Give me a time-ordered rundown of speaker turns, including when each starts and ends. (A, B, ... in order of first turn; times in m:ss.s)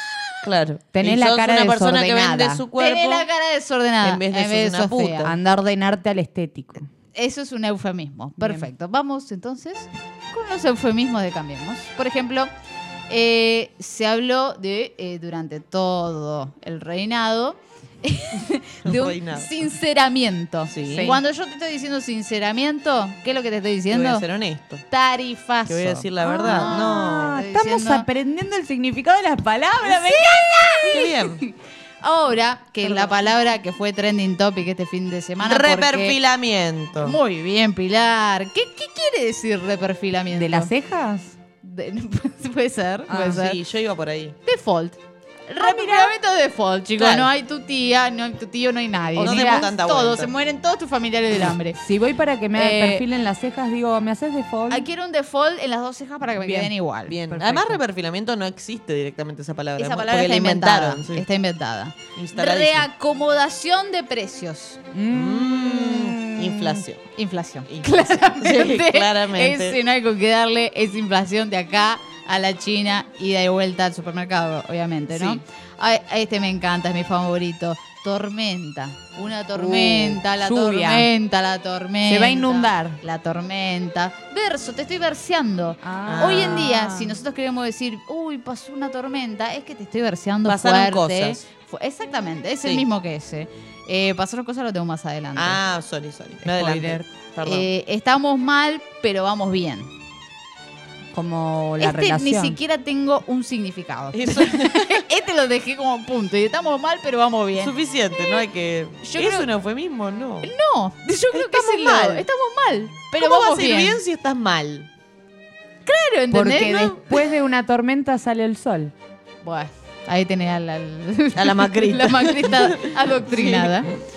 0:00.4-0:03.2 A
0:00.9-0:02.6 B
0:02.7-0:05.3 C
0:04.0-0:05.3 A
0:05.2-0:06.9 B
0:07.1-0:12.5 C
0:08.4-0:08.7 B
0:13.1-0:24.2 C
0:18.8-0:19.5 A
0:20.7-0:21.2 A
0:20.9-0:21.2 B
0:23.9-0:24.8 A
0:24.9-0:28.0 C
0:25.6-0:27.4 A
0:26.2-0:30.8 B
0:29.9-0:36.2 C
0:30.9-0:31.4 A
0:35.4-0:37.2 A
0:37.0-0:40.7 C
0:40.3-0:41.4 B
0:41.6-0:43.6 C
0:43.1-0:43.4 B
0:43.2-0:44.4 A
0:44.4-0:51.8 C
0:45.6-0:46.2 B
0:47.0-0:47.3 A
0:49.2-0:49.7 B
0:49.2-0:50.3 A
0:51.8-0:54.8 B
0:52.5-0:53.0 C
0:54.7-0:57.1 C
0:56.4-0:56.7 B
0:57.1-1:01.2 A
0:57.3-0:57.8 B
0:59.8-1:04.8 C
1:02.1-1:02.8 A
1:04.9-1:06.8 B
1:05.1-1:07.0 A
1:07.2-1:35.6 C
1:07.7-1:09.8 A
1:15.1-1:15.4 A
1:19.6-1:21.1 B
1:22.0-1:23.0 B
1:25.8-1:27.2 B
1:26.1-1:26.7 A
1:30.4-1:31.4 A
1:35.4-1:37.7 A
1:36.4-1:37.1 B
1:37.4-1:39.9 C
1:41.1-1:42.6 B
1:41.8-1:47.7 C
1:44.1-1:45.0 A
1:47.6-1:50.5 A
1:49.0-1:49.5 C
1:50.4-1:54.0 C
1:51.3-1:52.2 A
1:53.2-1:54.9 A
1:55.8-1:57.1 C
1:56.3-1:58.9 B
1:59.4-2:03.9 C
2:01.4-2:03.8 A